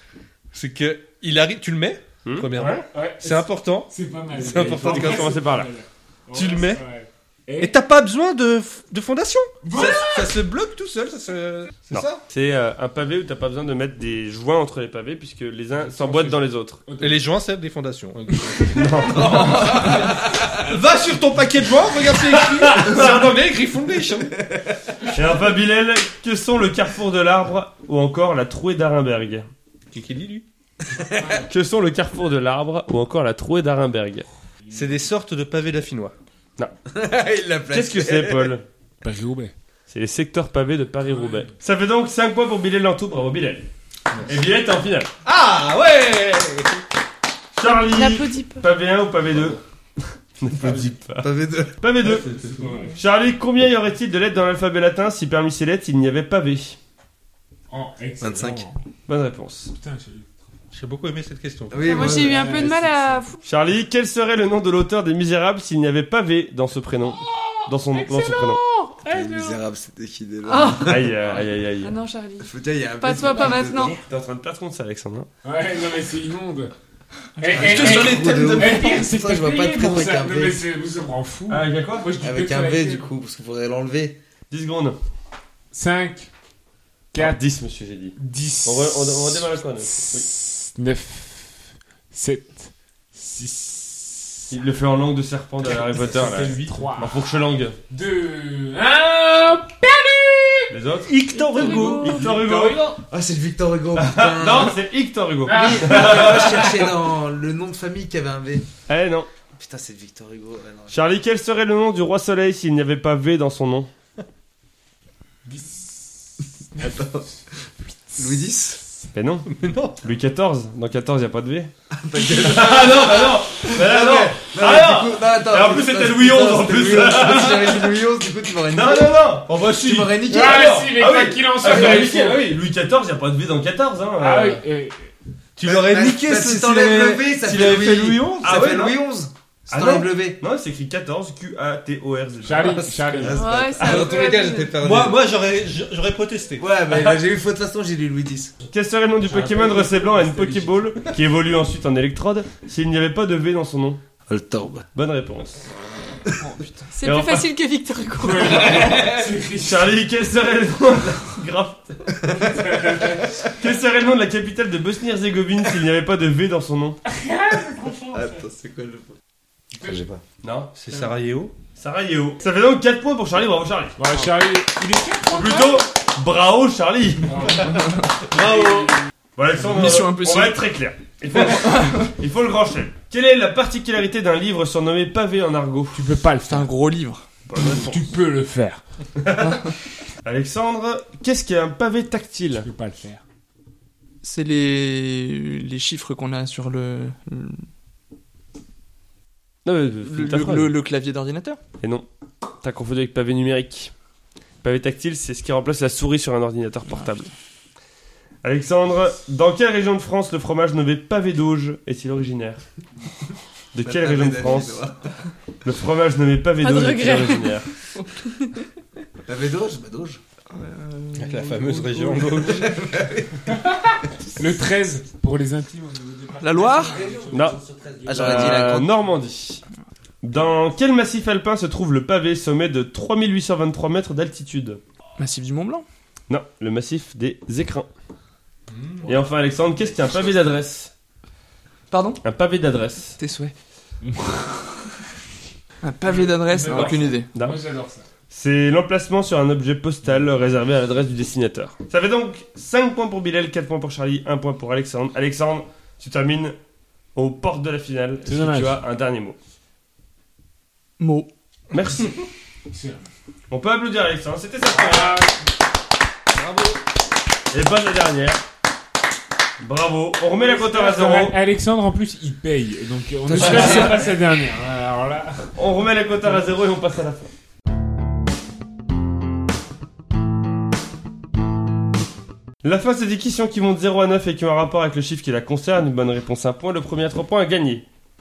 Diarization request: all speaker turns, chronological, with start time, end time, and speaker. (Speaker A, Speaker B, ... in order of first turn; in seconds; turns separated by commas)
Speaker A: 0.5-5.4, Speaker B: 2.2-2.7, Speaker C: 2.5-7.8, Speaker B: 4.5-5.7, Speaker A: 6.3-6.8, Speaker A: 7.6-12.2, Speaker C: 9.6-10.3, Speaker B: 11.9-16.8, Speaker C: 15.8-17.2, Speaker A: 17.0-24.4, Speaker B: 18.7-19.8, Speaker D: 19.1-20.6, Speaker B: 22.4-23.3, Speaker D: 24.3-24.8, Speaker B: 25.1-29.5, Speaker A: 29.9-30.4, Speaker D: 30.9-31.4, Speaker C: 31.2-31.5, Speaker B: 31.5-34.3, Speaker A: 34.7-36.1, Speaker D: 36.9-38.5, Speaker B: 37.7-38.6, Speaker C: 39.0-39.5, Speaker B: 39.9-43.7, Speaker C: 41.1-41.5, Speaker B: 44.2-45.1, Speaker A: 45.2-46.7, Speaker B: 47.5-49.6, Speaker E: 47.6-48.6, Speaker B: 50.4-52.3, Speaker D: 51.2-51.8, Speaker A: 52.0-52.8, Speaker C: 52.2-53.0, Speaker B: 53.0-56.8, Speaker C: 57.7-58.8, Speaker D: 58.2-58.7, Speaker B: 59.1-59.7, Speaker C: 59.7-60.3, Speaker A: 60.7-62.3, Speaker D: 61.7-62.9, Speaker E: 61.8-63.4, Speaker C: 62.1-63.2, Speaker B: 63.4-68.6, Speaker C: 67.2-69.6, Speaker D: 69.0-71.4, Speaker E: 70.5-71.0, Speaker B: 70.8-72.0, Speaker E: 71.8-74.0, Speaker D: 72.4-74.0, Speaker B: 74.0-75.3, Speaker C: 75.4-76.7, Speaker C: 77.4-83.0, Speaker D: 77.5-80.6, Speaker A: 77.7-78.4, Speaker B: 81.5-82.1, Speaker D: 82.2-84.2, Speaker B: 84.5-85.0, Speaker C: 85.7-86.3, Speaker C: 87.1-87.4, Speaker B: 87.2-90.2, Speaker C: 88.2-94.5, Speaker B: 94.5-97.8, Speaker A: 95.7-96.9, Speaker C: 96.2-97.2, Speaker C: 97.9-100.7, Speaker B: 100.7-103.0, Speaker A: 101.1-102.3, Speaker E: 101.3-102.2, Speaker C: 101.6-103.0, Speaker D: 102.9-104.8, Speaker B: 104.0-106.8, Speaker C: 105.5-106.6, Speaker D: 105.5-108.7, Speaker B: 108.9-109.3, Speaker D: 109.5-111.0, Speaker B: 110.9-113.9, Speaker C: 115.5-117.0, Speaker D: 116.8-117.3, Speaker C: 118.1-118.4, Speaker D: 118.1-118.8, Speaker B: 119.1-128.0, Speaker A: 119.5-120.0, Speaker D: 121.9-130.9, Speaker B: 128.7-129.6, Speaker A: 129.4-130.2, Speaker C: 130.3-132.4, Speaker B: 130.4-134.6, Speaker C: 134.2-135.1, Speaker A: 135.6-138.9, Speaker D: 135.6-140.4, Speaker B: 138.4-138.9, Speaker B: 139.7-142.9, Speaker C: 142.4-143.4, Speaker D: 143.1-145.2, Speaker E: 143.3-144.8, Speaker B: 143.8-144.2, Speaker A: 144.8-147.2, Speaker D: 146.6-148.5, Speaker B: 148.6-154.0, Speaker C: 149.2-151.0, Speaker D: 154.3-154.9, Speaker B: 154.9-155.7, Speaker F: 156.4-156.9, Speaker E: 156.9-159.0, Speaker B: 157.0-157.5, Speaker C: 158.2-160.0, Speaker B: 159.5-162.4, Speaker C: 162.3-163.5, Speaker B: 163.5-167.0, Speaker C: 167.0-168.4, Speaker D: 168.1-169.2, Speaker C: 169.7-170.0, Speaker D: 169.8-170.2, Speaker B: 170.4-170.7, Speaker A: 170.7-171.6, Speaker B: 171.7-174.0, Speaker C: 174.0-175.8, Speaker B: 175.3-186.1, Speaker C: 177.2-179.0, Speaker F: 179.6-180.6, Speaker F: 181.4-182.0, Speaker C: 185.9-186.7, Speaker F: 186.5-187.2, Speaker B: 187.5-188.1, Speaker C: 187.6-188.8, Speaker B: 189.2-192.7, Speaker C: 192.5-193.2, Speaker F: 194.2-197.7, Speaker B: 199.6-200.7, Speaker F: 200.0-201.6, Speaker B: 201.8-202.1, Speaker B: 202.6-203.9, Speaker B: 204.6-207.3, Speaker B: 208.4-212.6, Speaker B: 213.7-214.8, Speaker D: 213.8-215.2, Speaker B: 215.6-217.7, Speaker E: 216.6-218.7, Speaker D: 219.2-220.2, Speaker F: 220.5-222.8, Speaker A: 221.2-223.0, Speaker D: 222.4-223.3, Speaker C: 223.5-228.6, Speaker F: 226.4-226.9, Speaker D: 226.6-228.9, Speaker B: 227.3-227.6, Speaker B: 228.1-229.6, Speaker B: 230.2-234.8, Speaker F: 235.2-235.8, Speaker B: 236.3-237.9, Speaker A: 238.7-239.2, Speaker B: 239.1-240.9, Speaker F: 241.9-242.2, Speaker B: 242.2-243.2, Speaker F: 243.2-243.5, Speaker C: 244.0-244.6, Speaker F: 245.8-247.3, Speaker C: 246.0-248.0, Speaker B: 246.7-247.6, Speaker B: 248.3-256.6, Speaker B: 257.1-259.4, Speaker C: 258.2-258.8, Speaker F: 261.0-261.3, Speaker B: 261.7-262.2, Speaker C: 262.7-263.0, Speaker B: 263.5-265.2, Speaker C: 264.7-265.5, Speaker B: 267.5-268.4, Speaker B: 269.6-271.4, Speaker C: 270.4-275.6, Speaker D: 273.3-274.1, Speaker B: 273.4-273.8, Speaker B: 275.6-277.3, Speaker B: 282.6-287.8